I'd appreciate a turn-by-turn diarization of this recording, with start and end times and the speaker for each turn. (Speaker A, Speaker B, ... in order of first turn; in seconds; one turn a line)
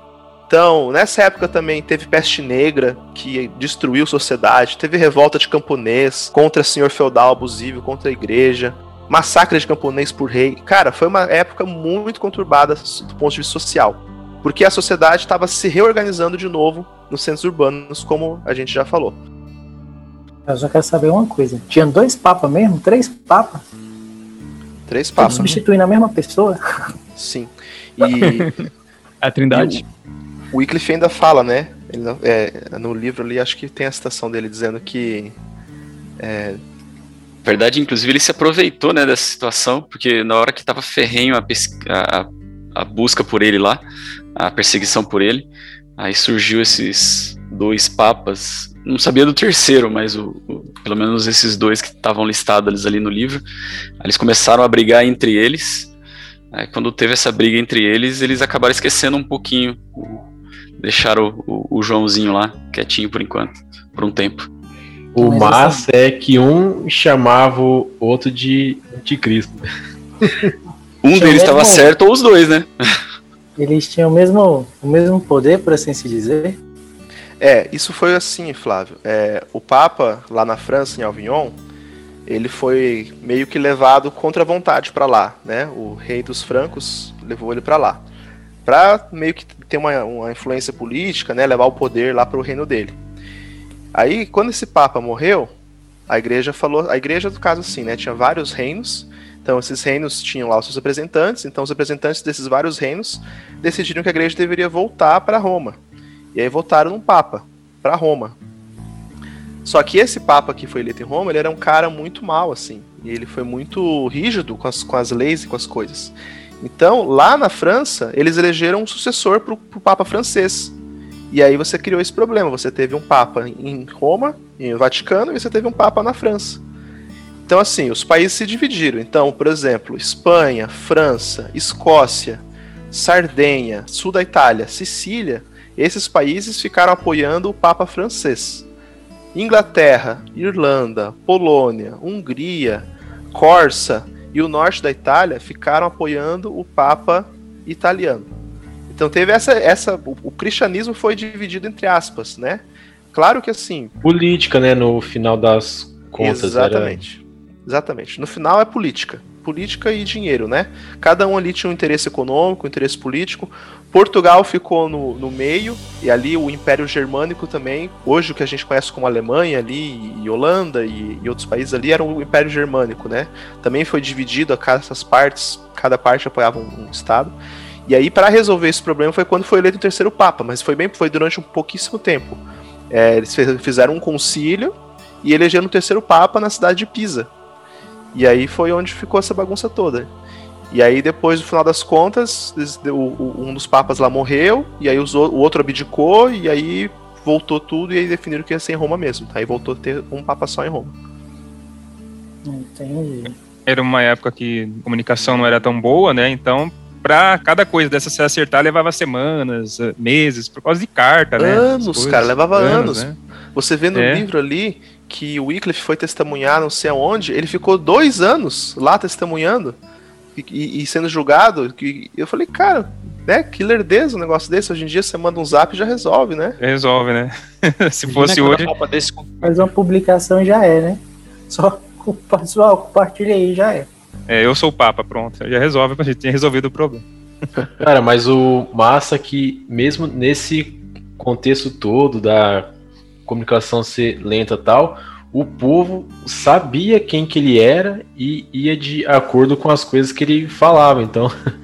Speaker A: 0.5-19.2
Speaker B: 20.5-23.6
Speaker A: 24.9-25.6
Speaker B: 25.2-26.6
Speaker A: 27.2-28.6
Speaker C: 28.2-28.7
Speaker C: 29.2-29.9
Speaker A: 29.5-29.8
Speaker A: 30.5-35.4
Speaker A: 36.2-36.6
Speaker D: 37.4-43.8
Speaker D: 44.4-45.5
Speaker D: 46.0-53.4
Speaker D: 54.0-55.9
Speaker D: 56.5-60.2
Speaker D: 60.8-64.5
Speaker E: 65.1-69.6
Speaker B: 65.2-65.9
Speaker E: 70.2-70.5
Speaker D: 71.0-72.7
Speaker B: 71.1-71.9
Speaker B: 73.6-76.6
Speaker A: 77.4-81.6
Speaker A: 82.3-88.0
Speaker A: 88.7-93.0
Speaker A: 93.9-95.5
Speaker A: 96.1-105.8
Speaker A: 106.3-108.4
Speaker A: 109.7-120.8
Speaker A: 121.3-126.6
Speaker A: 127.5-138.7
Speaker A: 139.3-148.3
Speaker A: 148.9-153.9
Speaker E: 154.0-157.0
Speaker A: 156.2-187.3
Speaker A: 188.1-190.1
Speaker A: 190.7-201.0
Speaker B: 202.4-203.4
Speaker F: 203.7-213.2
Speaker A: 211.4-219.8
Speaker F: 213.9-214.3
Speaker A: 220.4-226.6
Speaker F: 226.6-228.7
Speaker C: 228.1-229.5
Speaker B: 229.4-233.9
Speaker F: 234.3-237.1
Speaker E: 237.8-242.7
Speaker E: 243.3-251.3